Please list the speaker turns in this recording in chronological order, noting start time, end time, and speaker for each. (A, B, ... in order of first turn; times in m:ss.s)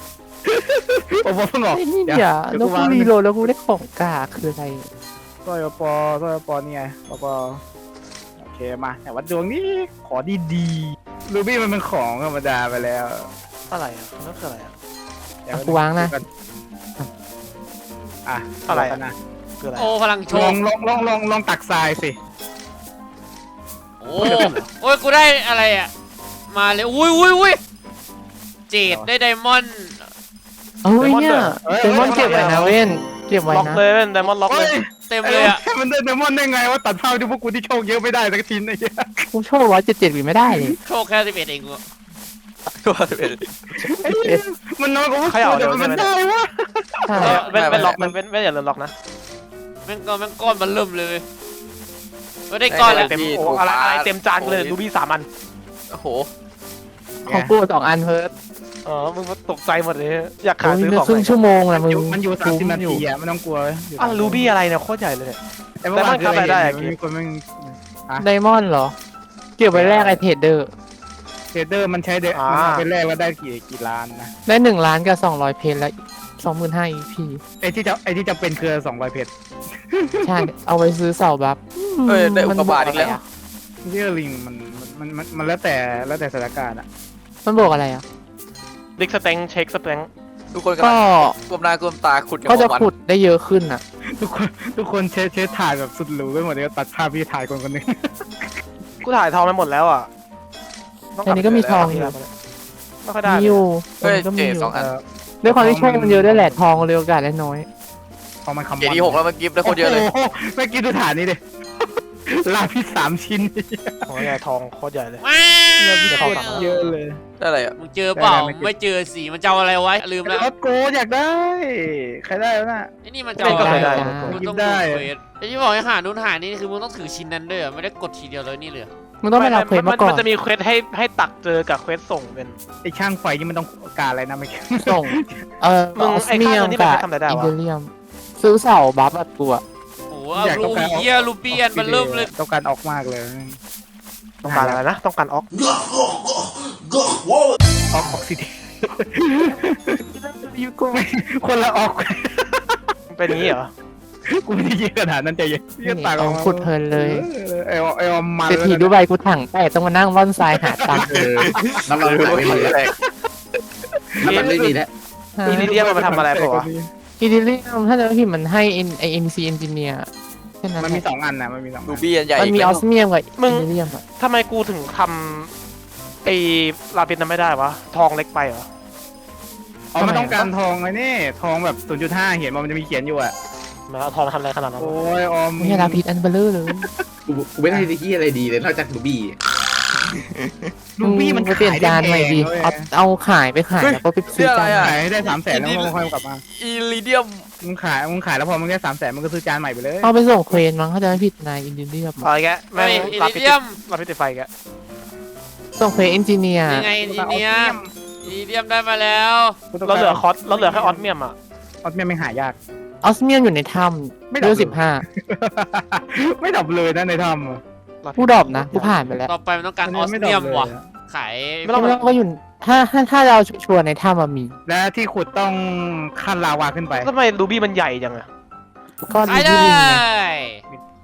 0:00.5-0:03.1 A
0:01.7-0:04.9 B
0:05.4-0:07.6 A
0:08.4-0:13.3 A
0:13.7-0:14.7 C
0:15.4-0:16.2 A
0:15.5-0:16.1 B
0:18.3-0:19.2 A
0:18.7-0:19.0 C
0:19.6-0:19.9 C
0:19.8-0:20.6 D
0:20.3-0:22.2 A
0:24.0-0:25.9 D
0:24.2-0:24.5 A
0:24.2-0:24.6 C
0:26.5-0:27.6 D
0:28.7-0:30.1 D
0:30.8-0:33.8 B
0:31.0-0:32.8 C
0:31.6-0:32.8 A
0:33.5-0:34.7 C
0:34.5-0:39.3 A
0:35.1-0:35.6 D
0:39.3-0:40.8 B
0:40.8-0:41.8 D
0:42.7-0:43.9 E
0:43.8-0:48.2 A
0:45.3-0:46.1 C
0:47.1-0:47.5 B
0:47.2-0:48.9 C
0:47.5-0:48.0 E
0:49.9-0:51.2 D
0:52.5-0:53.2 D
0:52.7-0:54.8 E
0:52.8-0:55.3 C
0:55.9-0:56.3 E
0:57.2-0:57.5 A
0:57.3-0:58.3 B
0:58.9-1:01.4 C
1:00.6-1:03.0 B
1:01.7-1:04.5 A
1:04.0-1:05.4 C
1:05.8-1:08.2 A
1:05.9-1:06.9 C
1:08.2-1:09.0 B
1:09.6-1:10.7 B
1:09.7-1:10.2 A
1:09.8-1:10.1 C
1:11.5-1:14.3 A
1:12.3-1:12.9 C
1:14.5-1:17.4 B
1:17.6-1:19.3 A
1:19.9-1:20.5 A
1:20.2-1:23.2 B
1:22.1-1:23.2 E
1:23.8-1:26.9 A
1:27.4-1:28.0 B
1:29.0-1:30.1 C
1:30.5-1:32.9 E
1:30.8-1:31.4 B
1:32.5-1:33.8 B
1:34.2-1:38.5 A
1:39.0-1:40.1 C
1:41.2-1:42.3 C
1:41.2-1:42.2 B
1:41.3-1:41.9 E
1:43.0-1:43.6 C
1:43.2-1:44.8 B
1:44.0-1:44.9 E
1:44.7-1:46.6 A
1:45.4-1:47.7 B
1:48.4-1:51.4 A
1:48.8-1:50.1 E
1:52.3-1:54.3 A
1:54.1-1:55.2 C
1:55.2-1:57.0 D
1:55.8-1:57.2 A
1:56.1-1:56.7 C
1:57.4-1:57.8 E
1:57.8-2:00.5 D
1:58.2-1:58.7 A
2:00.2-2:02.9 A
2:03.0-2:08.9 D
2:03.4-2:04.4 B
2:03.4-2:04.3 C
2:04.0-2:05.1 A
2:09.2-2:10.3 B
2:09.4-2:12.6 C
2:12.8-2:15.4 A
2:14.8-2:19.6 B
2:16.0-2:17.5 C
2:20.1-2:22.3 D
2:20.4-2:23.6 A
2:24.4-2:24.8 A
2:24.4-2:25.5 C
2:27.9-2:30.0 A
2:30.0-2:31.0 B
2:31.0-2:32.8 A
2:33.1-2:33.7 C
2:34.3-2:38.9 A
2:35.8-2:37.3 B
2:38.5-2:41.1 B
2:40.7-2:42.7 A
2:41.1-2:42.8 F
2:41.1-2:43.0 E
2:44.2-2:44.9 F
2:44.2-2:44.7 A
2:44.2-2:44.6 C
2:45.4-2:45.8 B
2:45.4-2:46.9 A
2:45.5-2:46.7 C
2:47.2-2:50.1 B
2:50.6-2:51.0 B
2:50.8-2:52.1 A
2:51.9-2:52.8 E
2:52.3-2:54.0 B
2:53.4-2:55.5 C
2:56.2-2:58.7 C
2:59.9-3:03.3 A
3:00.0-3:00.5 B
3:03.9-3:05.0 C
3:04.8-3:06.0 A
3:05.6-3:06.9 B
3:07.3-3:09.4 F
3:10.3-3:10.7 E
3:11.0-3:12.9 A
3:11.0-3:15.0 B
3:13.8-3:17.5 E
3:14.7-3:16.4 A
3:17.6-3:20.1 A
3:20.0-3:22.3 B
3:22.2-3:24.5 C
3:22.8-3:23.8 D
3:25.8-3:26.9 B
3:26.7-3:29.6 D
3:27.0-3:27.9 A
3:29.7-3:31.1 A
3:29.8-3:31.4 C
3:31.8-3:32.6 A
3:33.0-3:35.0 B
3:34.3-3:37.6 A
3:38.0-3:39.0 C
3:38.2-3:39.3 B
3:39.3-3:41.9 D
3:39.8-3:40.8 A
3:41.6-3:42.1 C
3:41.7-3:44.6 B
3:44.7-3:47.1 A
3:47.0-3:48.3 C
3:49.0-3:50.0 B
3:49.2-3:50.6 D